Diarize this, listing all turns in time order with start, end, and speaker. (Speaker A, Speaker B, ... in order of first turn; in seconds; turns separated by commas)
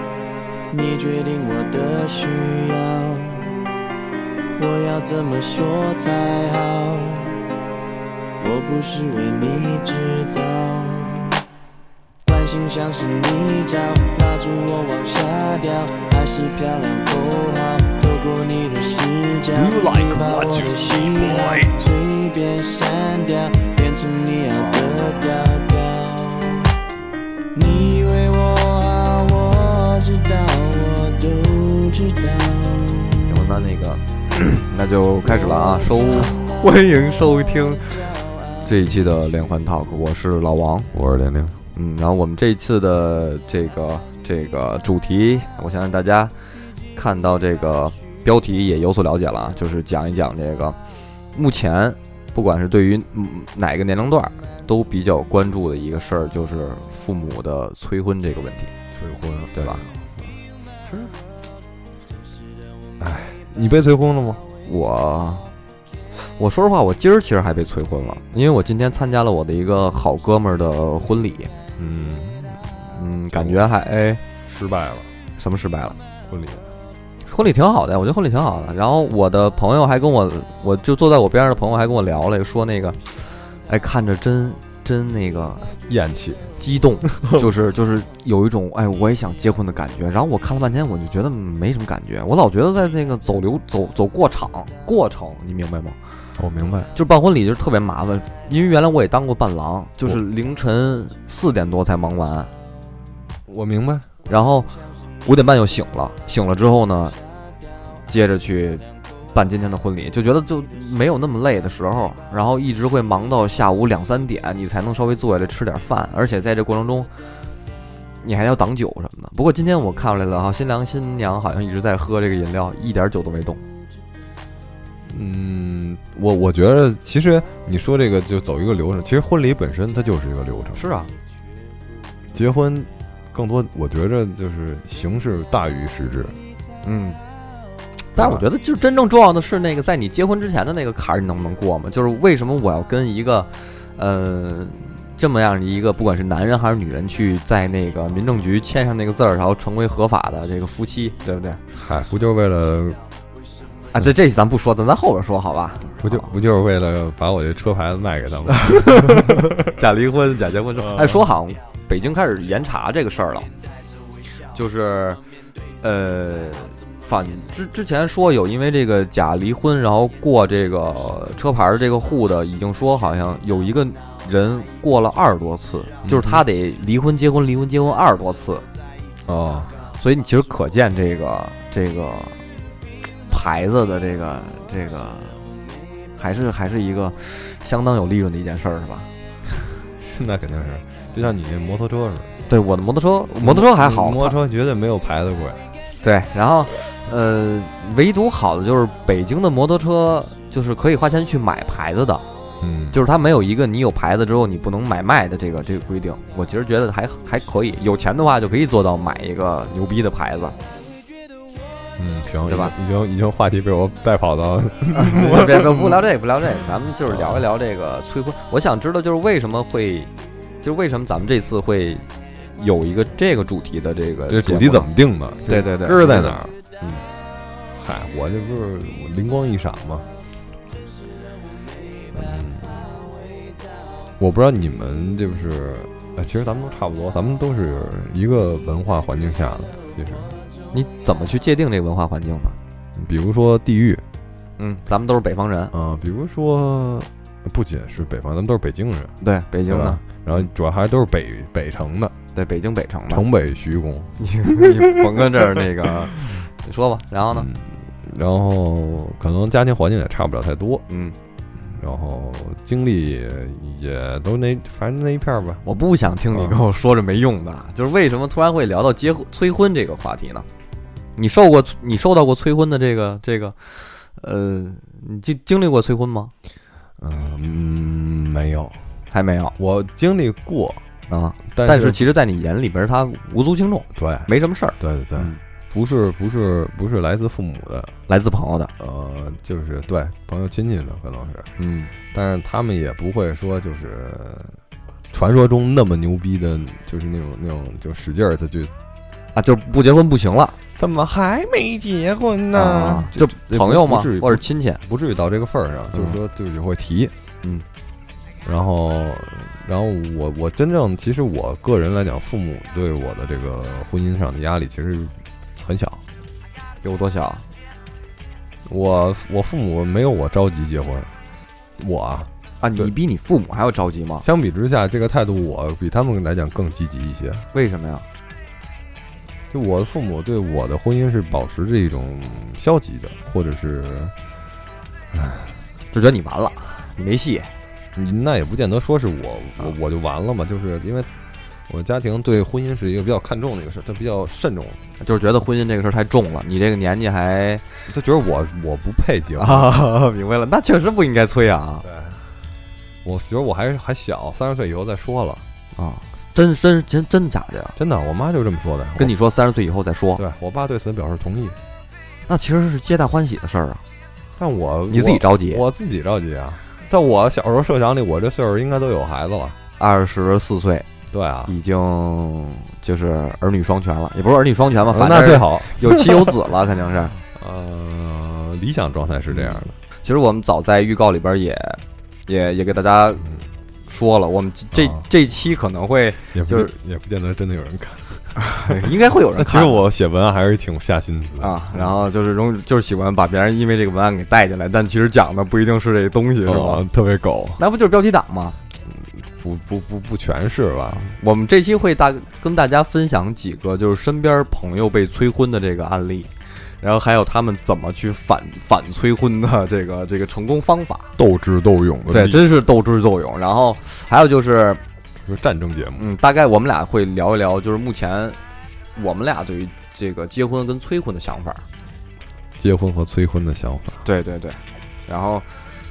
Speaker A: 0.7-3.5, Speaker A: 4.6-7.4, Speaker A: 8.4-11.4, Speaker A: 12.2-26.7, Speaker B: 19.5-21.7, Speaker A: 27.5-33.3, Speaker C: 33.2-38.1, Speaker A: 35.9-36.5, Speaker A: 37.8-38.4, Speaker C: 38.6-40.9, Speaker B: 40.9-41.6, Speaker C: 41.7-46.3, Speaker C: 46.9-50.8, Speaker C: 51.3-58.7, Speaker B: 58.9-61.1, Speaker C: 59.5-59.8, Speaker B: 63.0-64.4, Speaker C: 64.7-65.5, Speaker C: 66.2-71.5, Speaker B: 71.8-73.6, Speaker C: 73.0-74.2, Speaker B: 74.5-75.1, Speaker C: 75.4-76.0, Speaker B: 76.3-76.7, Speaker C: 77.2-85.7, Speaker B: 85.7-86.5, Speaker C: 86.6-96.0, Speaker B: 87.0-87.4, Speaker B: 96.4-96.9, Speaker C: 96.9-102.5, Speaker B: 103.5-104.1, Speaker C: 104.3-104.7, Speaker C: 105.2-107.2, Speaker C: 108.1-117.1, Speaker C: 118.2-123.6, Speaker B: 125.1-130.8, Speaker C: 130.7-131.1, Speaker B: 132.3-136.3, Speaker C: 136.8-137.2, Speaker C: 138.1-151.6, Speaker B: 138.1-138.4, Speaker B: 151.7-153.0, Speaker C: 153.9-156.3, Speaker B: 156.0-159.7, Speaker C: 158.6-163.5, Speaker B: 160.8-161.2, Speaker C: 164.5-165.2, Speaker C: 165.8-178.6, Speaker B: 176.0-176.4, Speaker B: 179.2-179.7, Speaker C: 180.0-182.4, Speaker C: 183.3-185.4, Speaker C: 186.2-189.1, Speaker B: 190.0-192.3, Speaker C: 192.5-194.4, Speaker B: 193.4-195.7, Speaker C: 196.0-202.2, Speaker B: 202.6-203.0, Speaker C: 202.9-210.6, Speaker B: 212.0-216.0, Speaker C: 212.5-212.7, Speaker C: 214.9-220.1, Speaker B: 217.1-217.4, Speaker C: 220.6-224.9, Speaker B: 224.3-226.5, Speaker C: 225.5-227.0, Speaker B: 227.7-230.1, Speaker B: 232.1-233.1, Speaker B: 234.2-240.4, Speaker C: 240.7-242.6, Speaker B: 242.9-244.0, Speaker C: 244.6-245.7, Speaker B: 245.7-249.1, Speaker C: 249.2-250.4, Speaker B: 249.7-252.1, Speaker C: 252.3-253.2, Speaker B: 253.1-255.2, Speaker C: 254.2-257.5, Speaker B: 257.3-260.8, Speaker C: 260.9-261.2, Speaker B: 261.6-265.6, Speaker C: 265.6-270.4, Speaker B: 266.3-266.6, Speaker C: 271.2-276.3, Speaker B: 277.0-278.8, Speaker C: 279.1-279.5, Speaker B: 279.6-280.8, Speaker C: 281.1-285.4, Speaker B: 281.5-282.1, Speaker B: 283.9-287.9, Speaker C: 288.1-288.7, Speaker B: 288.8-291.5, Speaker C: 291.6-291.9, Speaker B: 292.1-294.6, Speaker B: 295.1-298.7, Speaker C: 299.3-300.6, Speaker B: 300.8-307.1, Speaker C: 302.5-304.8, Speaker C: 305.9-306.2, Speaker B: 308.4-316.0, Speaker C: 316.8-317.4, Speaker B: 318.7-321.1, Speaker B: 321.8-322.9, Speaker C: 322.6-324.2, Speaker B: 324.2-327.5, Speaker C: 327.5-328.0, Speaker B: 329.5-334.1, Speaker B: 335.1-335.5, Speaker C: 335.9-337.5, Speaker B: 337.9-341.1, Speaker B: 341.7-344.8, Speaker C: 345.0-347.6, Speaker B: 347.9-349.7, Speaker C: 349.4-351.8, Speaker B: 351.8-352.2, Speaker B: 353.0-355.4, Speaker C: 355.7-357.8, Speaker B: 357.8-359.1, Speaker C: 359.0-360.2, Speaker B: 360.2-361.6, Speaker C: 362.3-363.8, Speaker B: 364.4-369.6, Speaker C: 364.9-365.6, Speaker C: 369.8-370.9, Speaker B: 371.1-371.5, Speaker C: 371.5-377.1, Speaker B: 374.9-376.3, Speaker B: 377.3-379.7, Speaker C: 379.3-383.3, Speaker C: 383.9-386.7, Speaker B: 384.7-385.0, Speaker B: 386.3-388.7, Speaker C: 388.6-389.8, Speaker B: 389.4-391.9, Speaker C: 391.4-396.8, Speaker B: 396.4-397.6, Speaker C: 397.6-398.6, Speaker B: 398.9-401.1, Speaker C: 400.9-411.1, Speaker B: 411.2-412.5, Speaker C: 412.1-414.8, Speaker B: 415.2-416.1, Speaker C: 416.0-418.4, Speaker C: 418.9-421.6, Speaker B: 422.6-424.0, Speaker C: 424.0-425.5